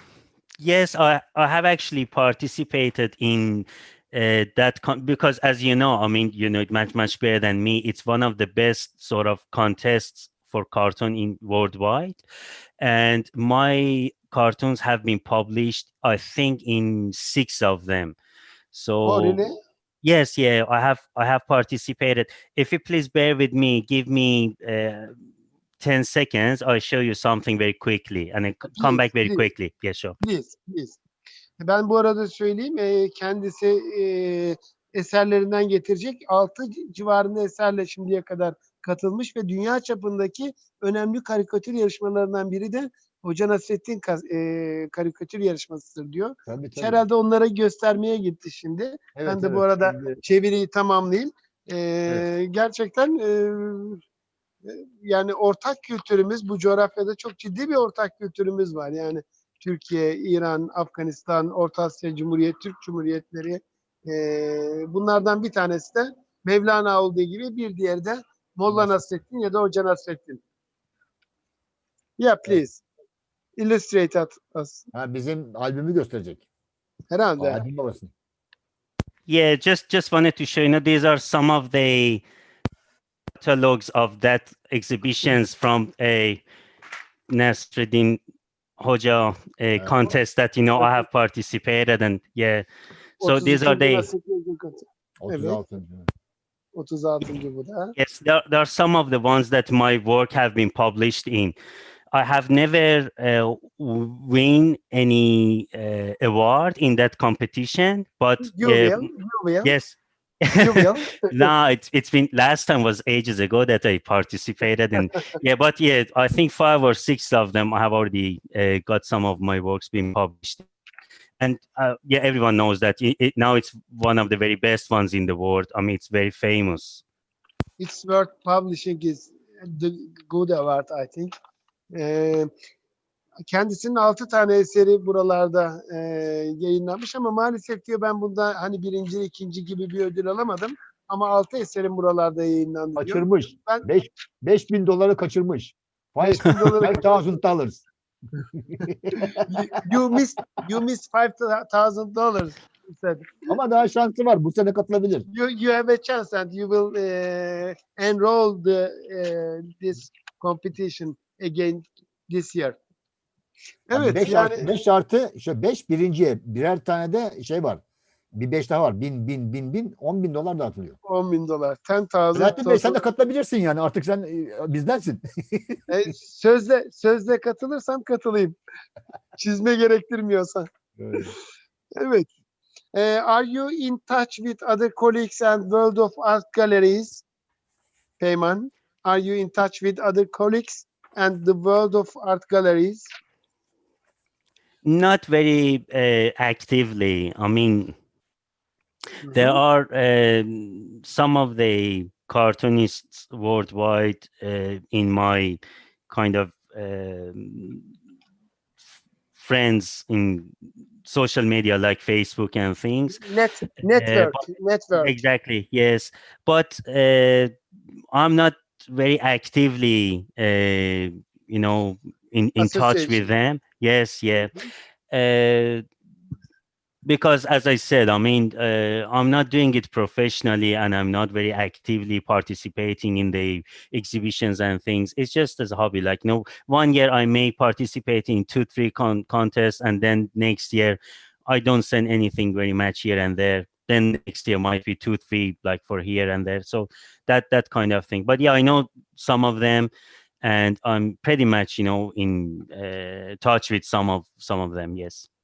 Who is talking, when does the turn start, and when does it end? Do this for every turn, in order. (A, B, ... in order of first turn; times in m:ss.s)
0:00.6-0:12.2 A
0:12.8-0:18.2 A
0:18.7-0:19.4 A
0:19.0-0:19.5 B
0:20.0-0:25.1 A
0:25.8-0:30.2 A
0:28.7-0:29.4 B
0:30.2-0:31.0 B
0:31.6-0:54.0 B
0:46.5-0:47.0 C
0:49.1-0:50.2 C
0:54.6-1:10.4 B
1:08.7-1:09.0 C
1:12.2-1:12.8 B
1:13.6-1:14.9 B
1:14.9-1:16.4 C
1:17.1-1:17.6 B
1:17.4-1:18.1 C
1:19.3-1:22.2 A
1:23.4-1:26.4 A
1:27.3-1:28.2 A
1:28.8-1:32.6 A
1:33.2-1:34.1 A
1:33.2-1:35.6 B
1:35.2-1:36.0 C
1:36.7-1:37.9 B
1:38.0-1:41.5 A
1:42.1-1:49.0 A
1:48.5-1:49.7 B
1:49.6-2:00.6 A
1:50.6-1:51.5 B
2:01.4-2:07.0 A
2:07.8-2:11.3 B
2:11.9-2:12.5 B
2:13.5-2:23.8 B
2:23.0-2:27.8 C
2:26.2-2:27.2 B
2:28.6-2:29.8 C
2:29.2-2:33.5 B
2:33.5-2:35.3 C
2:35.3-2:42.8 B
2:43.9-2:44.7 B
2:43.9-2:47.8 C
2:48.3-2:51.0 C
2:51.0-2:53.0 B
2:52.3-2:55.8 C
2:55.9-2:58.6 B
2:59.4-3:01.3 B
3:01.0-3:01.3 C
3:02.0-3:02.3 B
3:02.9-3:07.2 B
3:08.2-3:13.1 B
3:14.8-3:18.0 A
3:19.2-3:19.6 B
3:19.3-3:27.8 A
3:29.3-3:30.5 A
3:31.0-3:33.2 A
3:33.2-3:35.1 B
3:33.9-3:34.4 A
3:35.0-3:37.5 A
3:38.1-3:44.5 A
3:42.6-3:43.2 B
3:45.1-3:45.8 A
3:47.0-4:09.9 A
4:10.4-4:15.3 A